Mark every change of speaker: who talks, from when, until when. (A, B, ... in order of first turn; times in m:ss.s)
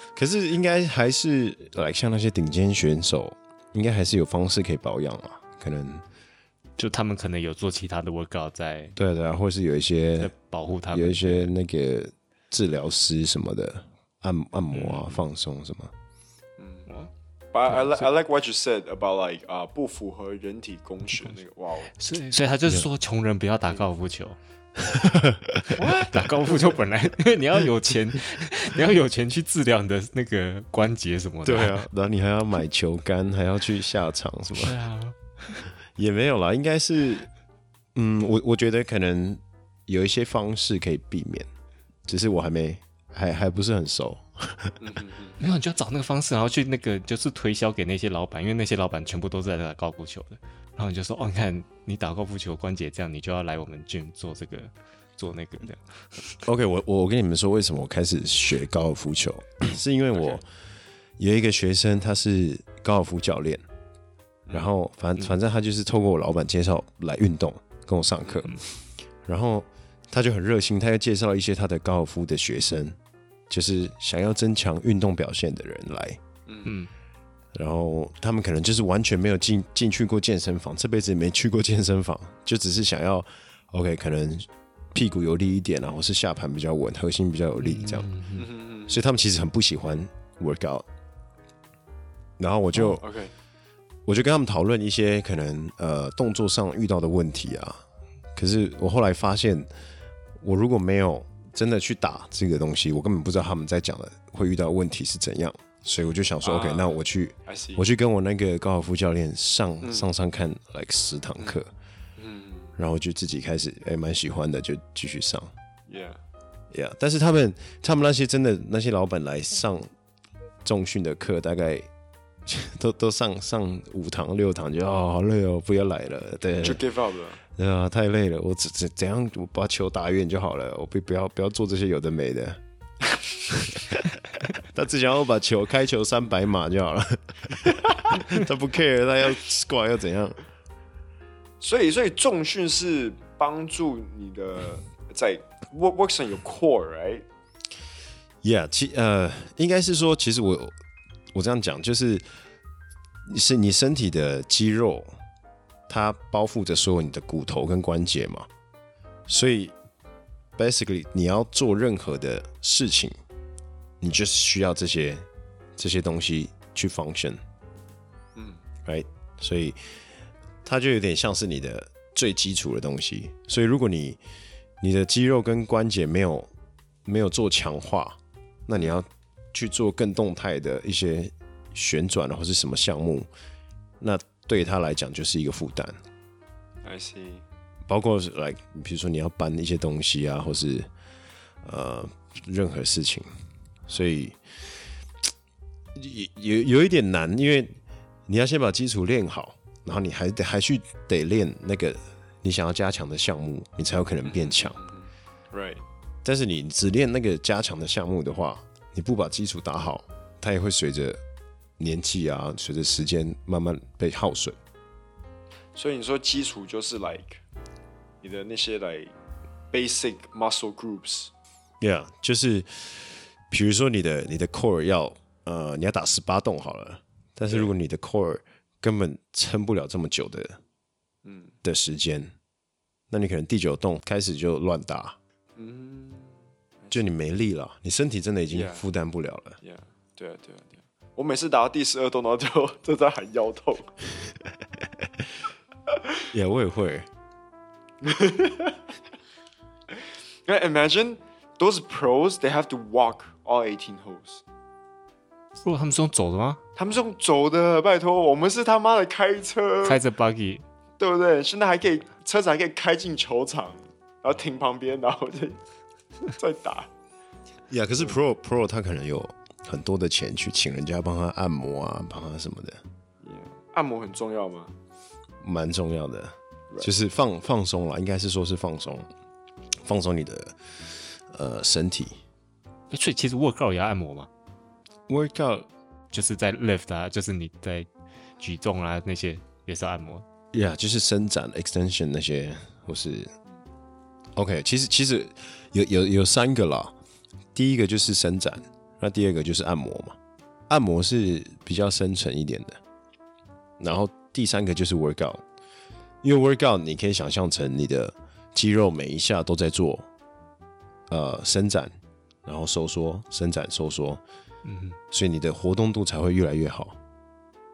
0:00.2-0:06.0 A
0:06.8-0:08.9 B
0:09.0-0:10.3 A
0:10.2-0:11.5 B
0:10.9-0:15.9 A
0:14.7-0:15.2 B
0:16.6-0:16.9 C
0:17.5-0:22.0 C
0:17.7-0:18.1 B
0:22.0-0:24.4 B
0:24.8-0:25.8 A
0:25.8-0:31.8 B
0:25.8-0:26.3 C
0:31.4-0:34.8 A
0:34.6-0:35.7 B
0:36.0-0:37.3 A
0:38.0-0:41.5 A
0:42.1-0:44.8 A
0:44.8-0:45.4 C
0:45.4-0:56.4 B
0:56.4-1:00.5 A
1:01.2-1:03.6 A
1:04.5-1:08.7 A
1:09.2-1:13.0 A
1:13.5-1:16.2 A
1:16.5-1:16.8 C
1:16.6-1:16.9 B
1:17.5-1:28.1 A
1:27.6-1:28.5 B
1:28.4-1:29.0 C
1:28.9-1:30.9 A
1:32.4-1:33.0 A
1:33.0-1:33.3 C
1:34.1-1:37.8 A
1:38.4-1:39.7 A
1:40.4-1:51.7 A
1:46.4-1:47.8 C
1:49.8-1:50.1 C
1:52.2-1:52.8 C
1:52.8-1:55.5 A
1:55.9-1:56.2 C
1:56.7-1:59.9 A
2:00.6-2:01.9 A
2:02.5-2:06.8 A
2:06.6-2:07.4 C
2:07.6-2:12.6 A
2:13.5-2:14.0 A
2:14.6-2:20.4 A
2:21.6-2:27.2 C
2:28.4-2:30.7 A
2:31.3-2:32.2 A
2:33.3-2:35.1 A
2:35.9-2:38.5 A
2:39.3-2:39.8 A
2:40.6-2:43.2 A
2:44.0-2:47.4 A
2:48.4-2:48.6 C
2:48.8-2:49.8 A
2:50.6-2:54.2 A
2:54.8-2:56.5 A
2:57.0-3:03.3 A
3:04.0-3:06.0 A
3:06.8-3:07.4 C
3:07.9-3:10.9 A
3:11.6-3:13.3 A
3:13.9-3:14.4 A
3:16.0-3:24.8 A
3:24.2-3:25.8 C
3:26.2-3:31.2 A
3:31.8-3:34.6 A
3:35.8-3:37.4 C
3:38.2-3:39.1 C
3:39.7-3:41.3 C
3:41.8-3:50.6 A
3:51.2-3:51.6 C
3:51.6-3:52.3 A
3:53.1-3:55.2 A
3:55.6-3:57.0 C
3:56.9-3:59.6 A
3:58.5-3:58.8 C
3:59.6-4:03.9 C
4:06.3-4:07.1 A
4:08.0-4:08.8 C
4:10.5-4:14.4 C
4:15.6-4:16.6 B
4:16.8-4:20.0 C
4:19.8-4:20.6 B
4:21.0-4:25.6 C
4:26.3-4:26.9 C
4:27.7-4:32.8 A
4:33.2-4:34.8 C
4:35.4-4:39.1 A
4:39.8-4:42.2 A
4:42.9-4:44.3 B
4:45.1-4:45.7 A
4:46.1-4:47.9 B
4:48.4-4:50.3 B
4:50.5-4:53.3 A
4:54.4-4:57.0 A
4:57.6-5:00.2 A
5:00.7-5:02.8 A
5:03.8-5:05.4 A
5:06.2-5:10.1 A
5:11.1-5:11.9 A
5:12.4-5:14.2 A
5:14.6-5:15.0 B
5:15.1-5:17.0 A